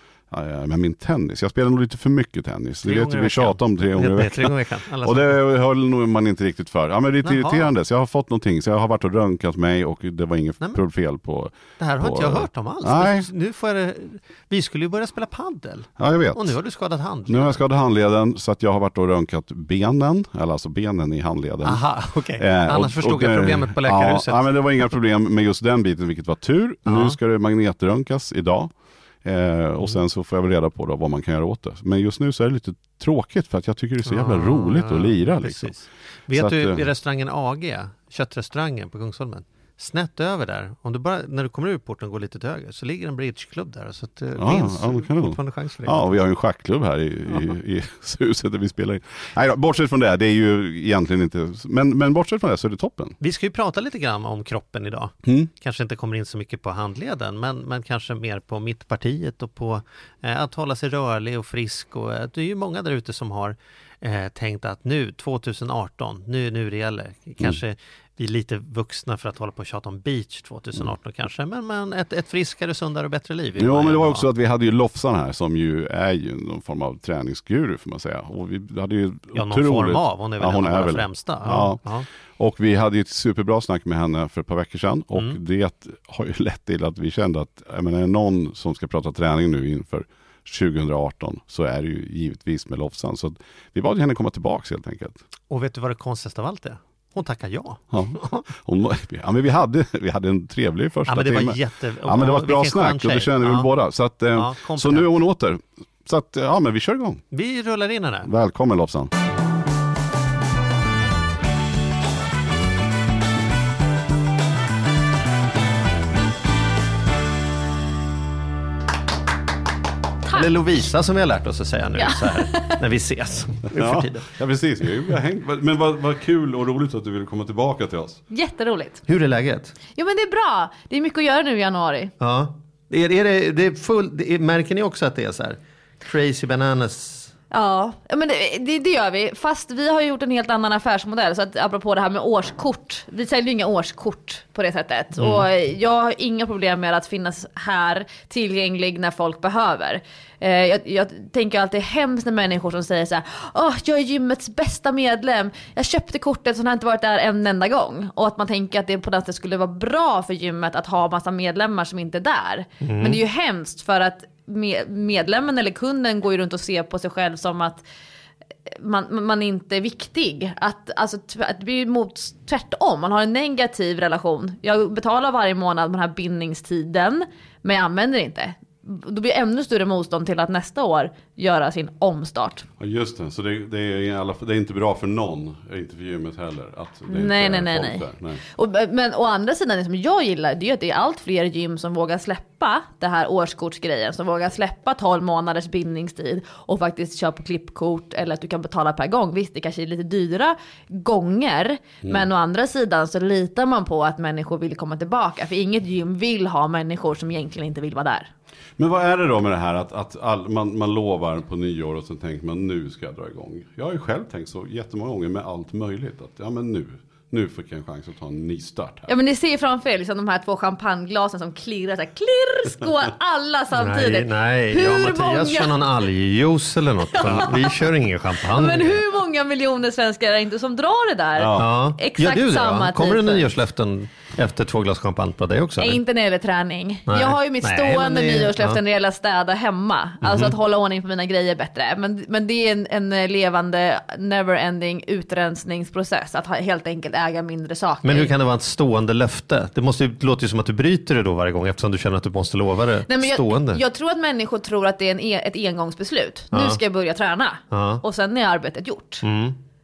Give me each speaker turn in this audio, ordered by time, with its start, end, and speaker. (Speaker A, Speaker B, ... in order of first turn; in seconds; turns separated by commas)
Speaker A: 0.3-13.3, Speaker B: 2.9-5.3, Speaker B: 7.2-7.7, Speaker B: 11.8-17.6, Speaker A: 16.0-16.5, Speaker A: 17.3-36.9, Speaker B: 21.6-24.9, Speaker B: 26.9-27.2, Speaker B: 34.0-46.2, Speaker A: 44.4-53.2, Speaker B: 53.2-74.3, Speaker A: 73.6-81.8, Speaker B: 79.3-82.1, Speaker A: 82.4-95.2, Speaker B: 95.5-98.4, Speaker A: 97.9-107.2, Speaker B: 101.1-103.7, Speaker B: 104.4-105.1, Speaker B: 107.3-108.3, Speaker A: 108.3-109.1, Speaker B: 120.3-124.3, Speaker C: 122.0-122.8, Speaker A: 123.7-128.2, Speaker C: 128.3-129.0, Speaker B: 129.1-129.8, Speaker C: 130.0-132.1, Speaker B: 132.2-137.3, Speaker C: 137.5-167.8, Speaker B: 145.2-145.4, Speaker B: 162.8-163.2, Speaker C: 168.7-182.7, Speaker A: 182.8-188.4, Speaker C: 187.1-208.3, Speaker A: 208.8-219.1, Speaker C: 219.1-225.9, Speaker B: 223.7-229.0, Speaker C: 227.1-227.9, Speaker C: 228.4-233.5, Speaker A: 231.4-231.7, Speaker B: 231.6-236.0, Speaker C: 235.8-248.3, Speaker B: 237.1-238.8, Speaker B: 240.2-240.6, Speaker B: 248.0-253.8, Speaker C: 253.1-259.3, Speaker B: 256.5-256.8, Speaker B: 257.7-258.0, Speaker B: 259.2-259.6